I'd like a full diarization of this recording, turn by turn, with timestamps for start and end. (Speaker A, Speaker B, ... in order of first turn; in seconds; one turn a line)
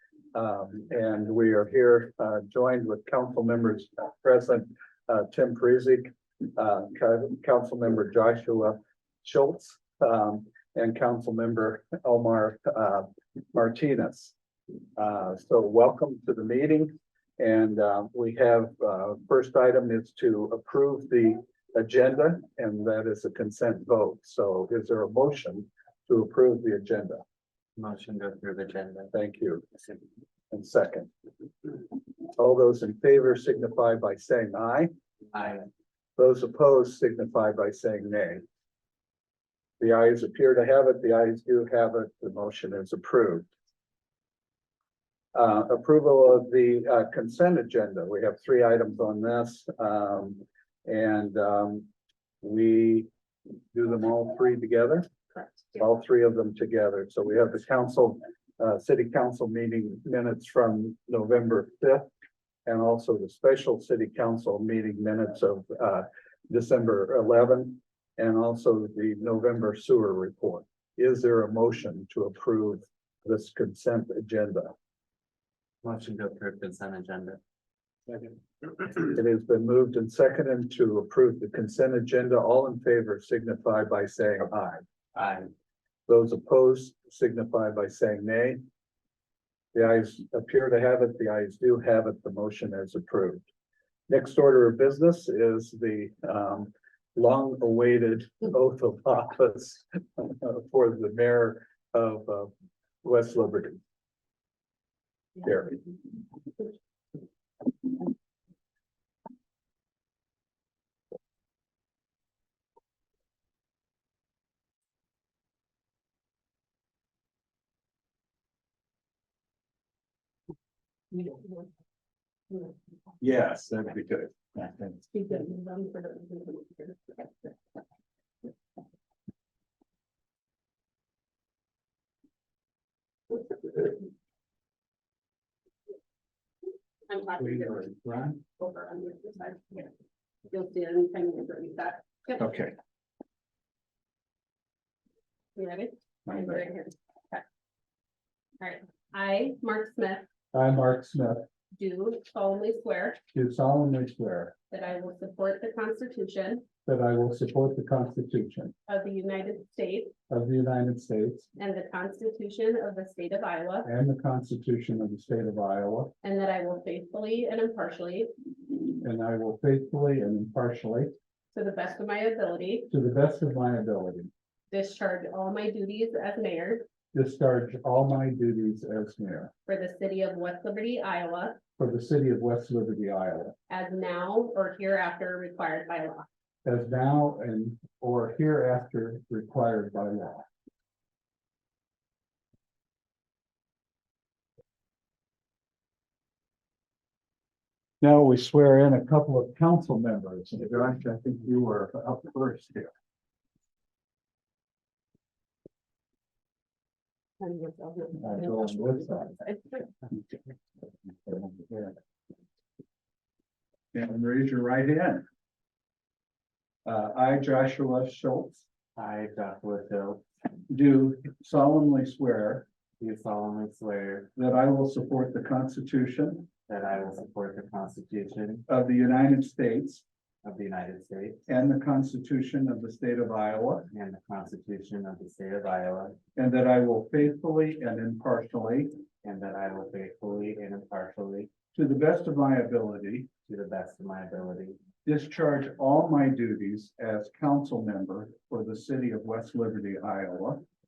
Speaker A: 0.3-14.3
Speaker A: 15.0-27.2
Speaker B: 27.8-29.1
Speaker A: 29.1-29.7
Speaker A: 30.5-31.1
Speaker A: 32.4-34.9
Speaker B: 35.3-35.6
Speaker A: 36.2-38.4
Speaker A: 39.8-43.5
Speaker A: 45.3-51.9
Speaker A: 52.4-53.1
Speaker A: 53.7-55.1
Speaker C: 55.4-55.6
Speaker A: 55.8-62.1
Speaker A: 62.7-74.7
Speaker B: 75.8-77.4
Speaker A: 79.1-84.8
Speaker B: 85.2-85.5
Speaker A: 86.1-88.6
Speaker A: 89.7-93.5
Speaker A: 94.1-102.5
Speaker A: 103.0-103.8
Speaker A: 105.4-105.9
Speaker C: 121.1-121.7
Speaker A: 123.2-125.1
Speaker C: 125.1-127.5
Speaker C: 133.3-133.9
Speaker C: 137.1-139.9
Speaker A: 137.4-138.4
Speaker C: 140.5-142.5
Speaker A: 142.4-142.7
Speaker C: 145.6-147.4
Speaker A: 146.3-146.6
Speaker C: 148.6-150.3
Speaker A: 150.5-151.5
Speaker C: 151.7-153.2
Speaker A: 153.3-154.5
Speaker C: 154.7-156.7
Speaker A: 156.8-158.7
Speaker C: 158.9-160.1
Speaker A: 160.3-161.5
Speaker C: 161.6-163.9
Speaker A: 163.8-166.1
Speaker C: 166.2-168.3
Speaker A: 169.0-171.1
Speaker C: 171.5-172.9
Speaker A: 172.9-174.3
Speaker C: 174.7-176.9
Speaker A: 177.1-179.5
Speaker C: 179.7-181.6
Speaker A: 181.8-183.6
Speaker C: 183.7-186.3
Speaker A: 186.7-190.5
Speaker A: 198.0-202.9
Speaker C: 207.4-209.9
Speaker A: 208.2-209.3
Speaker A: 211.2-211.9
Speaker A: 213.9-215.2
Speaker A: 216.8-218.7
Speaker B: 219.0-220.2
Speaker A: 220.7-222.7
Speaker B: 223.0-224.3
Speaker A: 224.4-226.5
Speaker B: 226.7-228.7
Speaker A: 228.7-230.0
Speaker B: 230.4-231.4
Speaker A: 231.5-233.9
Speaker B: 233.9-236.2
Speaker A: 236.4-239.0
Speaker B: 239.2-241.5
Speaker A: 241.7-243.3
Speaker B: 243.5-244.8
Speaker A: 245.1-250.6